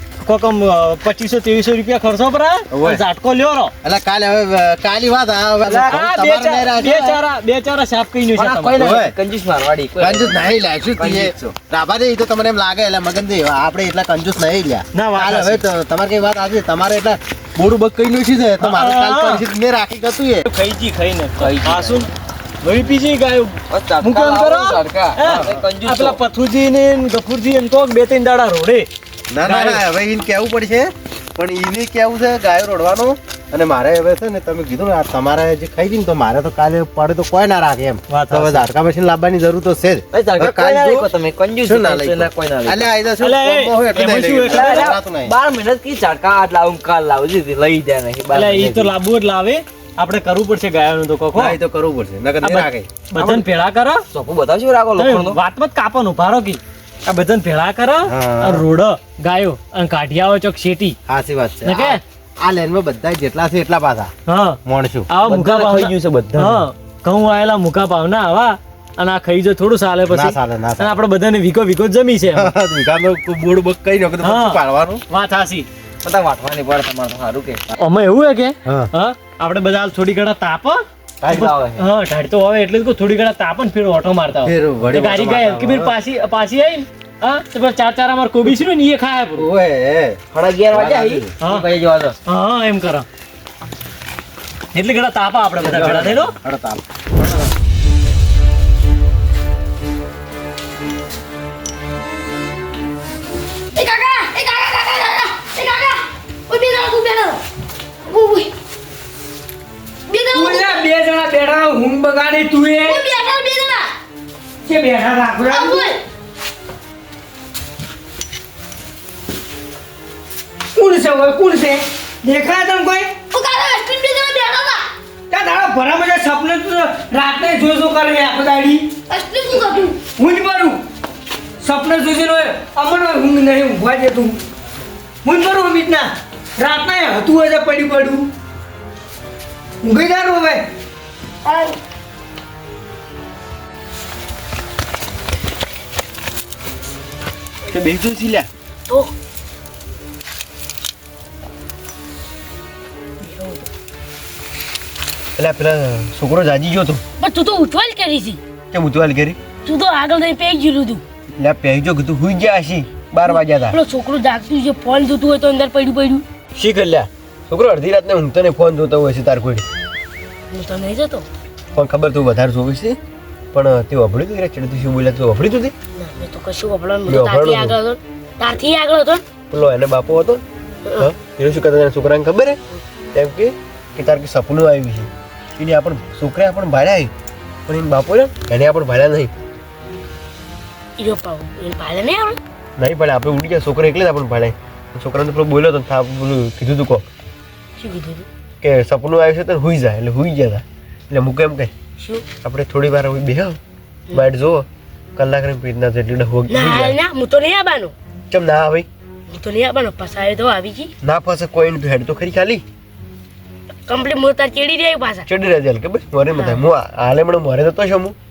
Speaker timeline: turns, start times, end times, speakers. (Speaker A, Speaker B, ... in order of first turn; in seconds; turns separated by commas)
Speaker A: 0.2-3.7, Speaker B: 2.7-3.0, Speaker B: 3.8-7.0, Speaker C: 5.6-6.0, Speaker A: 5.9-8.8, Speaker C: 8.3-11.3, Speaker B: 8.8-9.1, Speaker B: 10.0-20.5, Speaker A: 14.9-15.6, Speaker A: 18.6-19.4, Speaker A: 20.4-22.1, Speaker C: 21.4-22.1, Speaker A: 22.6-28.9, Speaker C: 23.7-26.2, Speaker B: 25.3-25.6, Speaker B: 29.3-41.1, Speaker A: 29.4-29.8, Speaker A: 38.1-38.6, Speaker C: 40.1-42.9, Speaker B: 41.6-45.3, Speaker A: 43.2-45.0, Speaker C: 44.5-48.9, Speaker A: 48.3-51.6, Speaker B: 51.3-52.9, Speaker A: 52.4-54.0, Speaker C: 53.1-53.5, Speaker C: 54.1-55.4, Speaker A: 55.0-61.0, Speaker B: 58.0-58.6, Speaker B: 61.1-64.1, Speaker A: 61.6-62.0, Speaker A: 64.3-72.5, Speaker B: 64.6-65.1, Speaker C: 65.2-66.6, Speaker B: 70.1-71.0, Speaker B: 72.3-75.0, Speaker A: 74.2-74.6, Speaker A: 75.1-75.7, Speaker C: 76.0-77.6, Speaker A: 77.8-89.5, Speaker C: 81.2-81.8, Speaker B: 84.4-86.0, Speaker B: 89.3-90.2, Speaker C: 90.3-92.1, Speaker B: 90.7-91.3, Speaker A: 92.2-93.1, Speaker A: 94.7-96.3, Speaker B: 95.6-96.8, Speaker D: 110.3-113.1, Speaker D: 114.7-115.9, Speaker D: 120.7-123.2, Speaker D: 125.3-128.9, Speaker D: 129.5-130.8, Speaker D: 131.6-134.4, Speaker D: 135.2-138.3, Speaker D: 139.8-140.6, Speaker B: 147.7-148.5, Speaker E: 153.2-153.7, Speaker B: 155.4-157.0, Speaker E: 157.2-158.4, Speaker B: 158.7-159.4, Speaker E: 159.6-161.0, Speaker B: 161.3-163.8, Speaker E: 163.2-166.2, Speaker B: 166.5-169.6, Speaker E: 170.5-171.3, Speaker B: 171.7-173.0, Speaker B: 173.5-175.7, Speaker E: 175.9-179.2, Speaker B: 177.1-177.8, Speaker B: 179.5-180.4, Speaker E: 180.8-181.1, Speaker B: 181.0-182.6, Speaker B: 183.1-187.1, Speaker B: 187.7-189.3, Speaker E: 191.0-192.4, Speaker B: 192.8-197.1, Speaker E: 197.8-198.2, Speaker B: 198.6-201.7, Speaker E: 202.0-202.3, Speaker B: 202.4-203.6, Speaker B: 204.1-207.0, Speaker E: 206.5-207.9, Speaker B: 208.3-208.9, Speaker E: 209.3-210.9, Speaker B: 211.0-212.6, Speaker E: 213.9-215.3, Speaker B: 215.2-218.2, Speaker E: 216.3-216.6